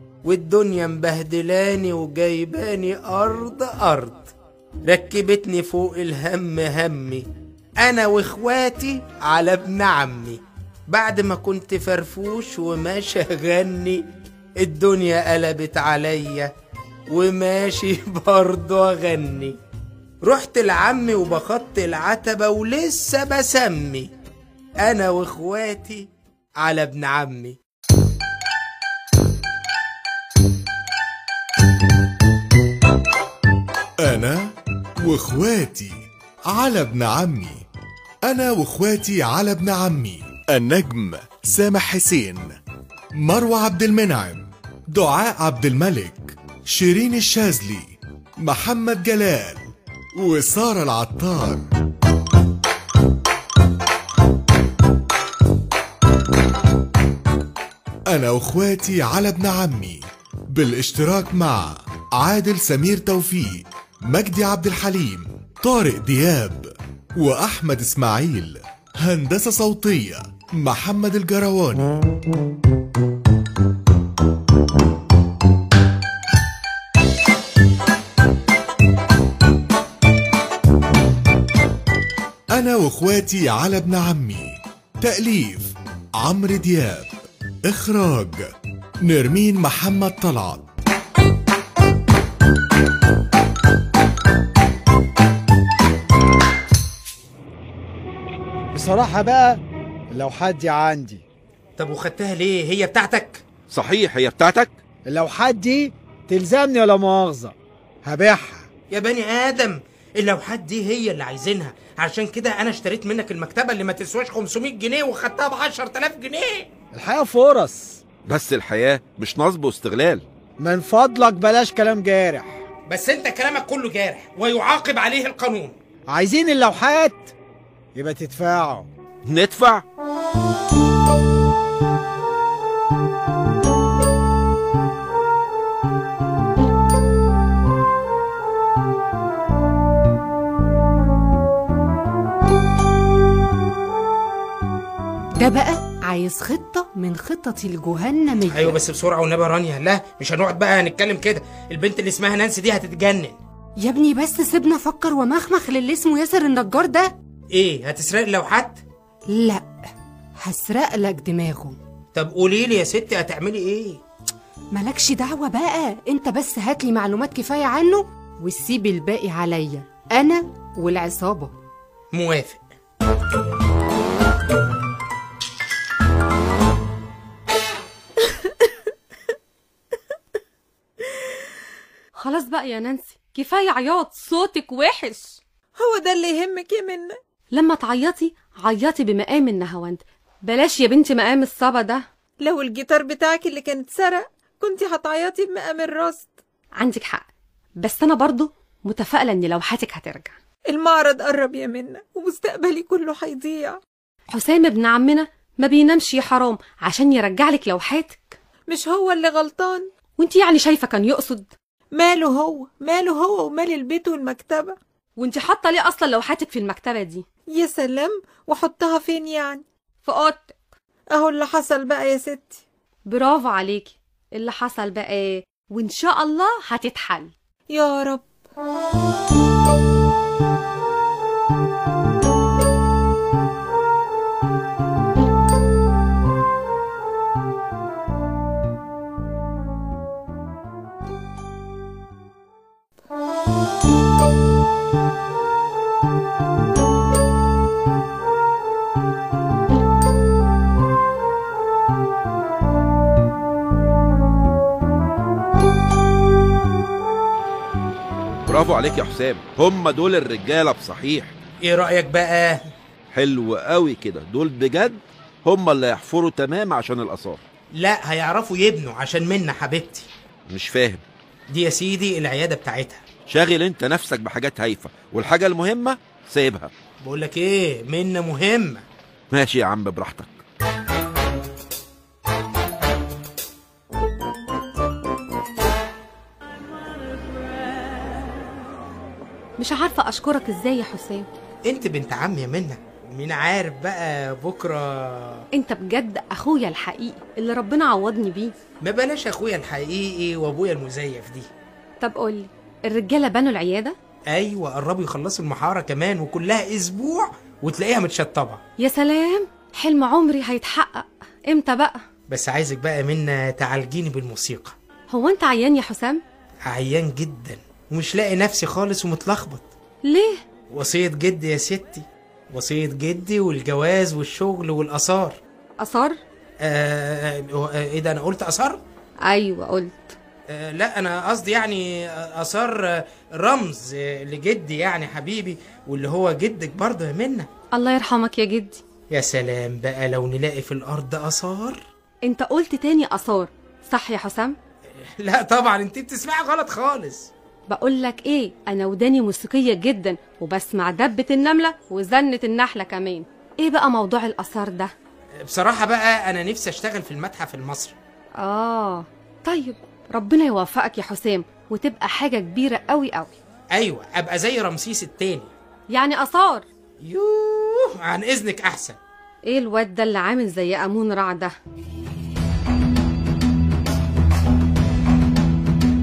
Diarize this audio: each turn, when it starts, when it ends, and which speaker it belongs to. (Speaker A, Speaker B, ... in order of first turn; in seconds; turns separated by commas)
Speaker A: 0.2-4.3, Speaker A: 4.9-7.3, Speaker A: 7.8-14.0, Speaker A: 14.6-16.5, Speaker A: 17.1-19.6, Speaker A: 20.2-24.1, Speaker A: 24.8-26.1, Speaker A: 26.6-27.6, Speaker B: 34.0-37.6, Speaker B: 38.2-42.5, Speaker B: 43.2-51.7, Speaker B: 58.1-71.9, Speaker B: 82.5-87.1, Speaker B: 87.7-88.5, Speaker B: 89.0-90.6, Speaker C: 98.7-101.2, Speaker A: 101.8-103.4, Speaker D: 103.7-104.8, Speaker C: 105.0-108.7, Speaker A: 108.9-116.7, Speaker C: 116.9-118.0, Speaker D: 118.3-120.2, Speaker C: 120.6-122.6, Speaker A: 122.9-125.8, Speaker C: 126.1-127.3, Speaker C: 128.0-128.9, Speaker D: 129.3-129.8, Speaker E: 145.3-148.8, Speaker A: 148.5-153.4, Speaker E: 153.8-157.1, Speaker A: 157.5-158.8, Speaker E: 159.3-159.7, Speaker E: 160.4-161.8, Speaker A: 162.2-164.0, Speaker E: 164.7-171.5, Speaker A: 172.1-172.6, Speaker F: 182.2-185.3, Speaker G: 185.8-187.2, Speaker F: 187.5-192.0, Speaker G: 192.4-196.2, Speaker F: 196.8-197.3, Speaker F: 197.8-200.3, Speaker G: 200.7-203.8, Speaker F: 204.3-208.4, Speaker G: 208.7-209.9, Speaker F: 210.2-211.5, Speaker G: 211.9-214.8, Speaker F: 215.2-217.2, Speaker G: 217.5-219.7, Speaker F: 220.0-220.6, Speaker G: 221.1-222.6, Speaker F: 223.1-227.3, Speaker G: 227.7-228.2, Speaker D: 258.5-261.3, Speaker A: 261.6-262.7, Speaker D: 263.1-267.4, Speaker A: 267.8-270.1, Speaker D: 270.5-271.0, Speaker A: 271.5-273.0, Speaker D: 273.3-276.7, Speaker A: 277.0-278.9, Speaker D: 279.3-280.4, Speaker F: 289.6-291.3, Speaker A: 291.7-295.4, Speaker F: 295.5-298.5, Speaker A: 298.8-301.5, Speaker F: 302.0-303.9, Speaker A: 304.3-308.6, Speaker F: 308.8-312.0, Speaker A: 312.3-314.8, Speaker F: 315.1-316.2, Speaker A: 316.7-319.6, Speaker F: 320.0-320.4, Speaker A: 320.7-325.4, Speaker F: 325.8-326.2, Speaker A: 326.6-328.8, Speaker F: 329.2-330.1, Speaker A: 330.5-337.5, Speaker F: 337.7-338.8, Speaker A: 339.1-341.8, Speaker F: 342.3-344.6, Speaker A: 345.2-347.3, Speaker F: 347.7-354.9, Speaker A: 355.4-357.9, Speaker F: 358.4-363.3, Speaker A: 363.7-365.5, Speaker F: 365.9-366.7, Speaker A: 367.0-369.0, Speaker F: 369.5-371.6